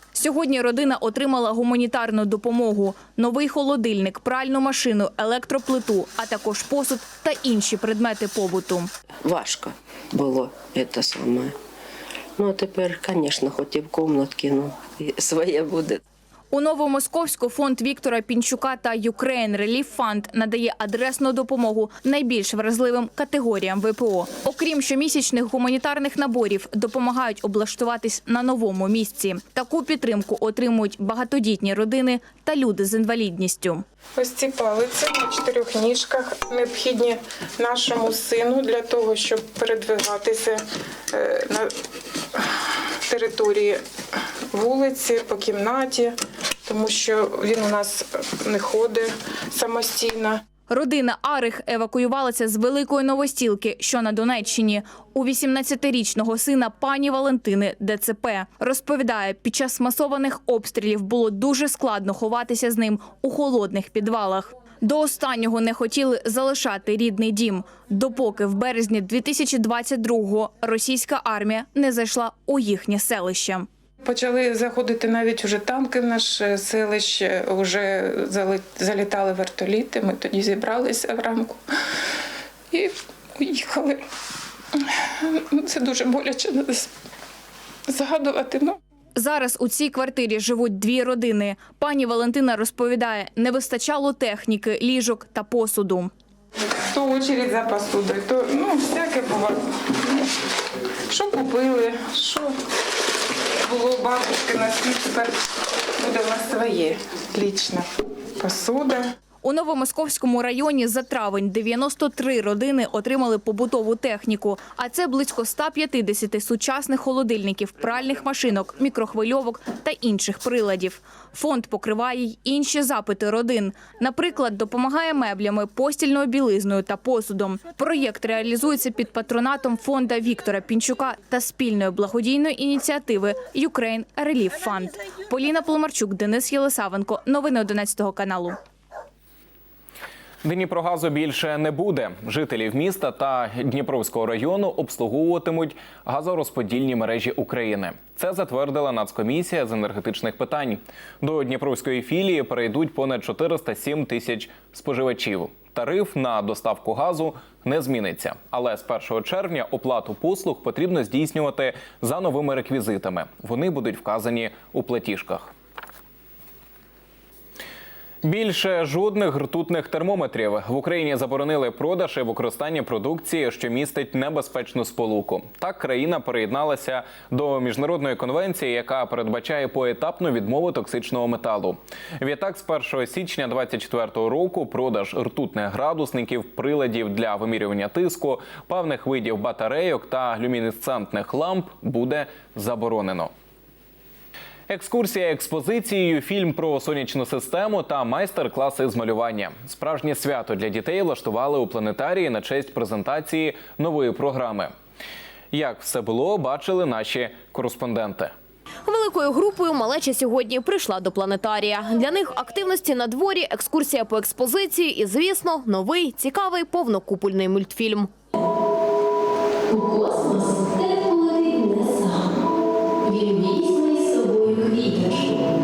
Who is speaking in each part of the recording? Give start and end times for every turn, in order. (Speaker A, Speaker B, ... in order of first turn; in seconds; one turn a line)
Speaker A: 0.1-8.9
Speaker B: 9.2-11.5
Speaker B: 12.4-16.0
Speaker A: 16.5-33.8
Speaker C: 34.2-40.6
Speaker C: 41.1-41.7
Speaker C: 43.1-43.8
Speaker C: 44.5-46.1
Speaker C: 46.7-50.4
Speaker A: 50.7-73.7
Speaker C: 74.0-81.6
Speaker C: 82.7-84.0
Speaker C: 85.3-86.9
Speaker C: 87.9-88.8
Speaker A: 89.2-96.1
Speaker C: 96.9-100.2
Speaker C: 101.1-102.5
Speaker C: 103.7-105.3
Speaker C: 106.0-107.9
Speaker C: 108.4-109.1
Speaker A: 109.4-138.6
Speaker D: 140.4-165.5
Speaker D: 168.2-193.3
Speaker D: 194.7-204.7
Speaker D: 205.5-208.3
Speaker E: 208.9-218.1
Speaker E: 219.7-222.3
Speaker E: 223.1-225.3